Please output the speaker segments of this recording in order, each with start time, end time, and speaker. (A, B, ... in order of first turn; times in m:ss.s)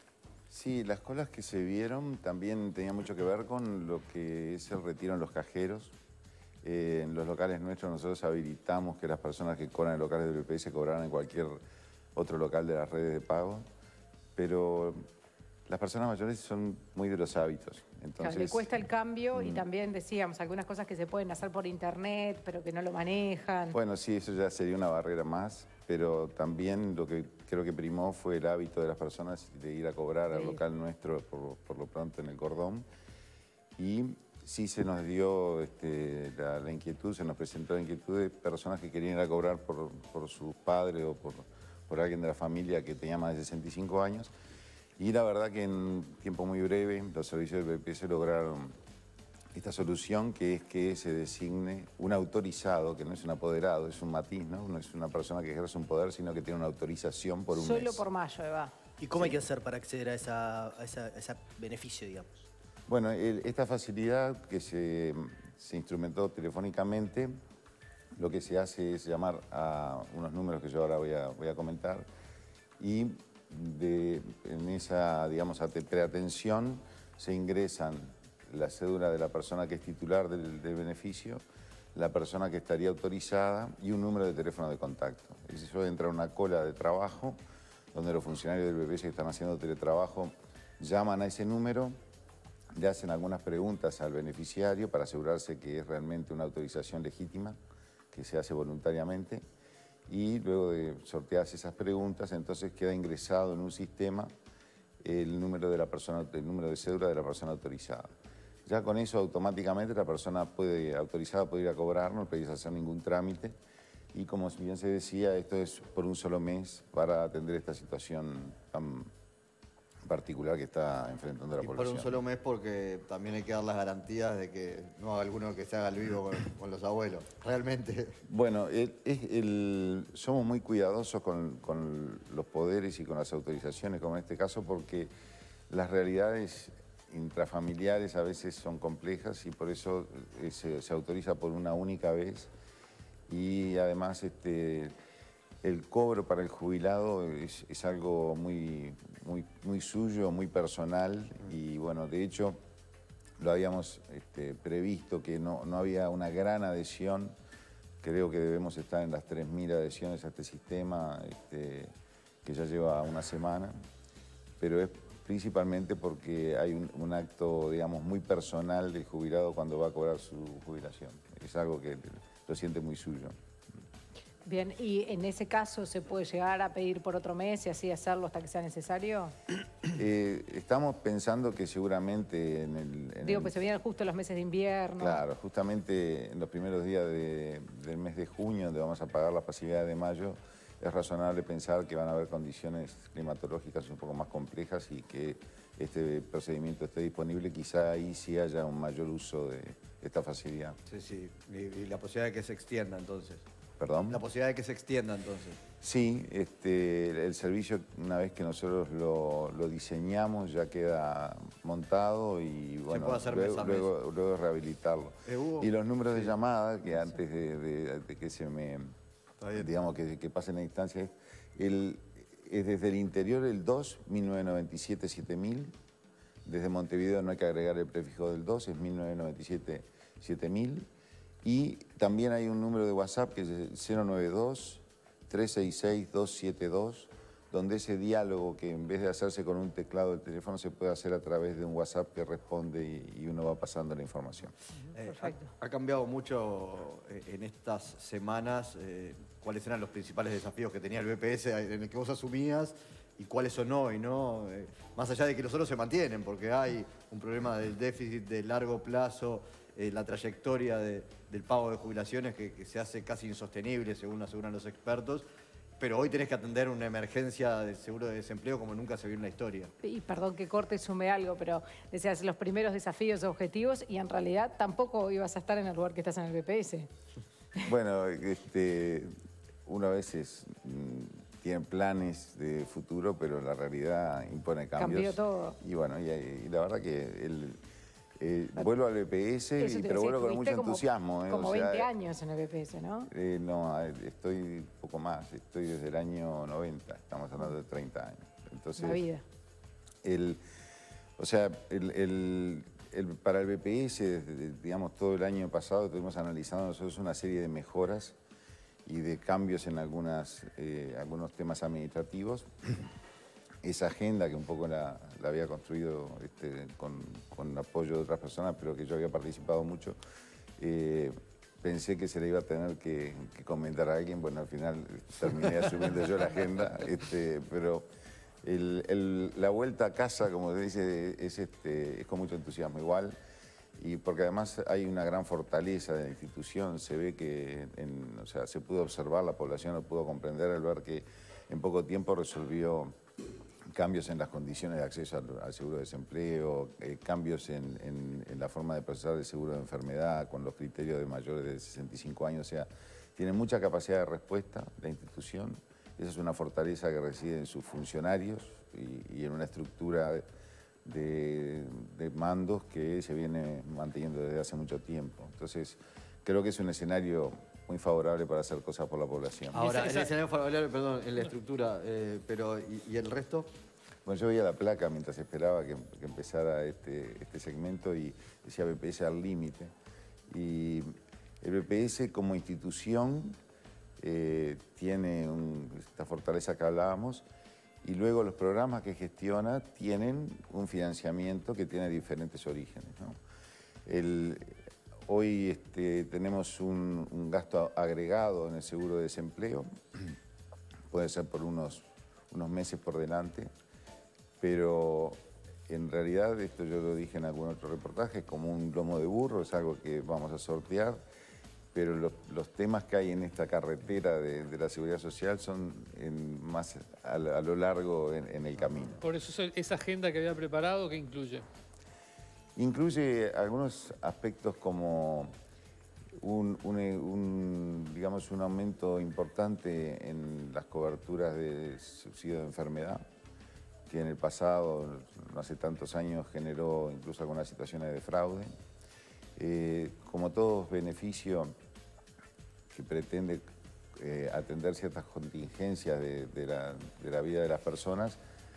0:00.5-0:05.9 A
0:06.6-0:11.6 A
0:12.1-0:13.6 A
0:14.3-0:15.0 A
0:15.7-0:18.7 A
0:18.2-0:23.8 B
0:19.3-0:19.6 A
0:23.7-0:32.8 A
0:30.3-0:30.6 B
0:33.8-0:44.3 A
0:45.0-0:48.7 A
0:49.5-0:58.0 A
0:57.5-0:58.7 B
0:59.0-1:02.4 C
1:02.9-1:07.3 A
1:08.2-1:12.1 A
1:12.8-1:21.4 A
1:21.9-1:27.4 A
1:27.9-1:32.0 A
1:32.7-1:37.6 A
1:38.1-1:39.4 A
1:40.1-1:44.3 A
1:45.0-1:48.1 A
1:48.6-1:53.6 A
1:54.1-1:59.1 A
2:00.0-2:02.2 A
2:01.6-2:08.2 D
2:08.2-2:15.1 A
2:15.7-2:22.5 A
2:23.3-2:24.9 A
2:25.6-2:32.6 A
2:33.4-2:37.3 A
2:38.0-2:41.9 A
2:42.4-2:43.7 A
2:44.6-2:53.3 A
2:54.4-2:59.3 B
2:59.9-3:03.6 A
3:03.2-3:05.2 B
3:05.0-3:20.8 A
3:20.9-3:23.4 D
3:23.8-3:24.2 A
3:24.1-3:25.6 D
3:25.8-3:38.9 A
3:32.9-3:33.9 D
3:35.2-3:36.3 D
3:39.4-3:39.7 D
3:39.5-3:45.7 A
3:46.4-3:50.9 A
3:51.4-4:04.5 A
4:04.9-4:25.2 D
4:05.1-4:05.5 B
4:25.8-4:29.7 D
4:29.8-4:36.9 B
4:37.6-4:39.1 A
4:39.6-4:47.6 A
4:44.8-4:45.6 B
4:48.2-4:51.9 A
4:49.6-4:53.1 B
4:53.1-4:59.0 A
4:58.8-4:59.2 B
5:00.0-5:00.4 A
5:01.2-5:08.2 A
5:08.8-5:12.9 A
5:13.6-5:20.0 A
5:20.6-5:27.8 A
5:28.4-5:33.2 A
5:33.8-5:43.0 A
5:43.7-6:00.2 A
6:00.8-6:09.6 A
6:09.5-6:13.5 D
6:09.6-6:10.1 E
6:14.0-6:19.7 A
6:20.3-6:20.9 A
6:21.4-6:23.4 A
6:24.0-6:27.2 A
6:27.8-6:33.2 A
6:33.8-6:40.2 A
6:40.9-6:43.5 A
6:44.4-6:51.0 A
6:51.7-6:59.0 A
6:59.0-7:01.4 E
7:02.6-7:05.3 A
7:06.2-7:13.0 A
7:13.9-7:18.5 A
7:19.4-7:21.5 A
7:22.7-7:23.4 A
7:24.0-7:28.2 A